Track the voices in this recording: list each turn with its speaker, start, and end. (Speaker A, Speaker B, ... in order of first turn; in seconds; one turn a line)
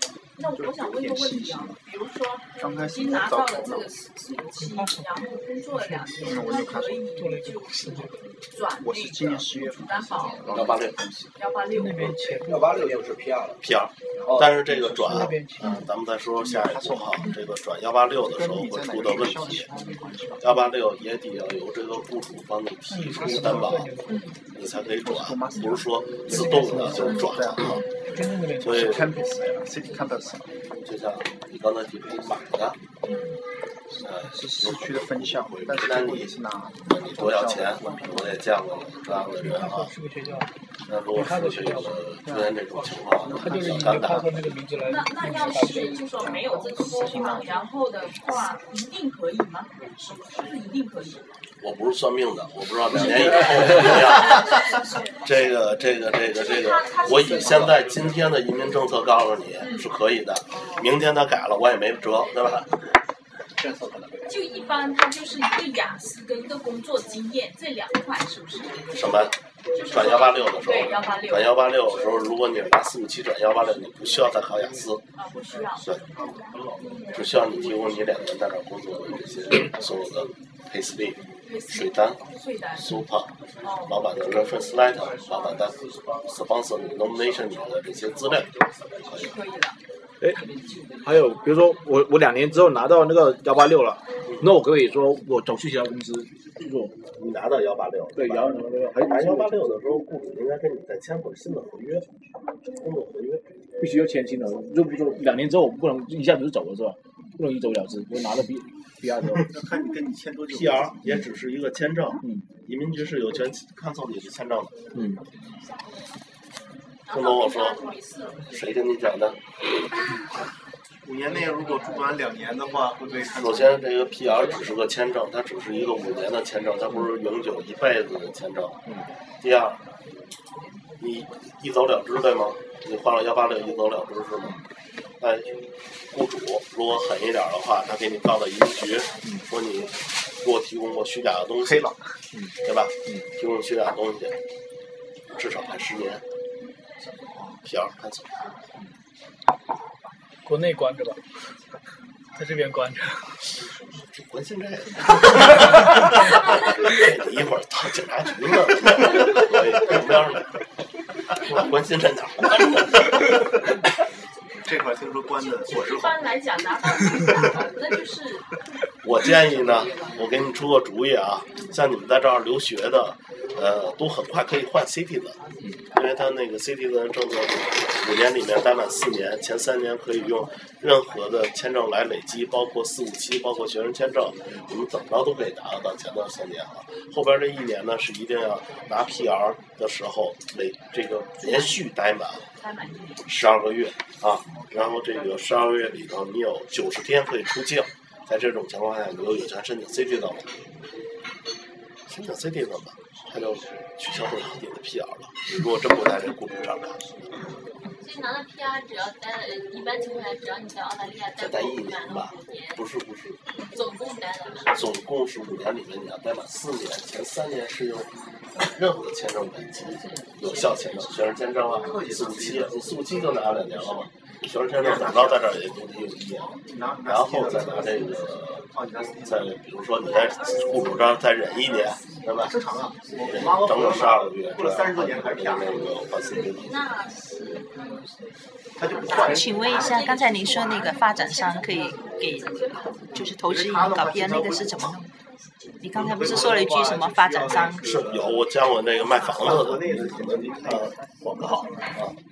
Speaker A: 0.4-10.5
Speaker B: 0.5-1.8
Speaker B: 2.6-3.9
Speaker C: 4.6-8.2
Speaker B: 6.2-7.0
Speaker B: 8.8-11.3
Speaker D: 10.5-11.0
Speaker A: 11.4-12.5
Speaker C: 11.7-13.1
Speaker E: 12.5-13.6
Speaker D: 13.6-19.7
Speaker E: 14.2-14.6
Speaker C: 14.7-15.8
Speaker B: 16.4-17.3
Speaker B: 18.3-20.4
Speaker D: 20.4-27.9
Speaker C: 22.9-24.2
Speaker B: 25.0-27.9
Speaker C: 28.1-28.9
Speaker D: 28.6-29.1
Speaker B: 28.6-30.5
Speaker D: 30.8-32.8
Speaker D: 34.0-39.9
Speaker B: 34.2-38.4
Speaker C: 39.4-40.5
Speaker D: 40.9-44.6
Speaker C: 41.1-42.0
Speaker B: 42.2-42.6
Speaker B: 43.2-44.4
Speaker C: 43.3-46.4
Speaker A: 44.8-49.7
Speaker F: 46.4-47.4
Speaker B: 47.0-47.6
Speaker A: 50.2-51.3
Speaker D: 51.6-54.6
Speaker D: 55.2-62.8
Speaker A: 56.3-57.8
Speaker E: 57.2-57.8
Speaker E: 63.6-64.4
Speaker A: 64.3-68.9
Speaker D: 68.9-69.3
Speaker A: 69.8-71.6
Speaker D: 69.9-75.0
Speaker A: 75.1-76.0
Speaker D: 75.8-76.0
Speaker D: 77.1-82.2
Speaker A: 81.4-83.0
Speaker D: 82.8-89.3
Speaker A: 83.6-83.9
Speaker A: 89.1-89.8
Speaker G: 90.2-97.0
Speaker D: 97.2-102.1
Speaker G: 98.2-99.6
Speaker D: 102.8-103.5
Speaker G: 103.8-109.5
Speaker H: 109.5-111.0
Speaker D: 110.5-114.8
Speaker G: 115.0-115.2
Speaker A: 117.1-118.5
Speaker D: 117.1-117.8
Speaker D: 118.5-119.4
Speaker H: 121.0-123.6
Speaker D: 123.3-128.8
Speaker D: 129.4-129.8
Speaker D: 131.0-134.6
Speaker D: 135.2-141.9
Speaker D: 142.6-144.4
Speaker D: 145.3-146.2
Speaker D: 147.6-148.5
Speaker C: 150.4-151.2
Speaker C: 152.4-153.4
Speaker D: 153.9-160.6
Speaker D: 161.3-163.3
Speaker H: 164.6-166.3
Speaker A: 165.5-168.5
Speaker D: 169.0-192.5
Speaker A: 169.3-170.1
Speaker A: 191.4-191.7
Speaker A: 192.6-193.3
Speaker D: 193.2-200.5
Speaker D: 202.1-207.2
Speaker F: 208.0-212.8
Speaker D: 211.4-213.4
Speaker F: 213.6-214.7
Speaker D: 214.7-226.5
Speaker F: 220.2-221.7
Speaker H: 221.8-222.8
Speaker H: 224.8-225.4
Speaker H: 226.7-229.5
Speaker D: 227.0-228.7
Speaker D: 229.2-232.6
Speaker A: 230.3-231.5
Speaker H: 232.4-235.9
Speaker D: 233.2-236.9
Speaker F: 236.4-238.0
Speaker H: 238.8-240.0
Speaker A: 239.0-242.1
Speaker F: 239.2-243.3
Speaker I: 239.2-242.5
Speaker I: 243.2-245.1
Speaker H: 243.4-245.0
Speaker I: 245.8-247.9
Speaker H: 245.9-248.4
Speaker D: 247.8-252.2
Speaker H: 249.2-251.8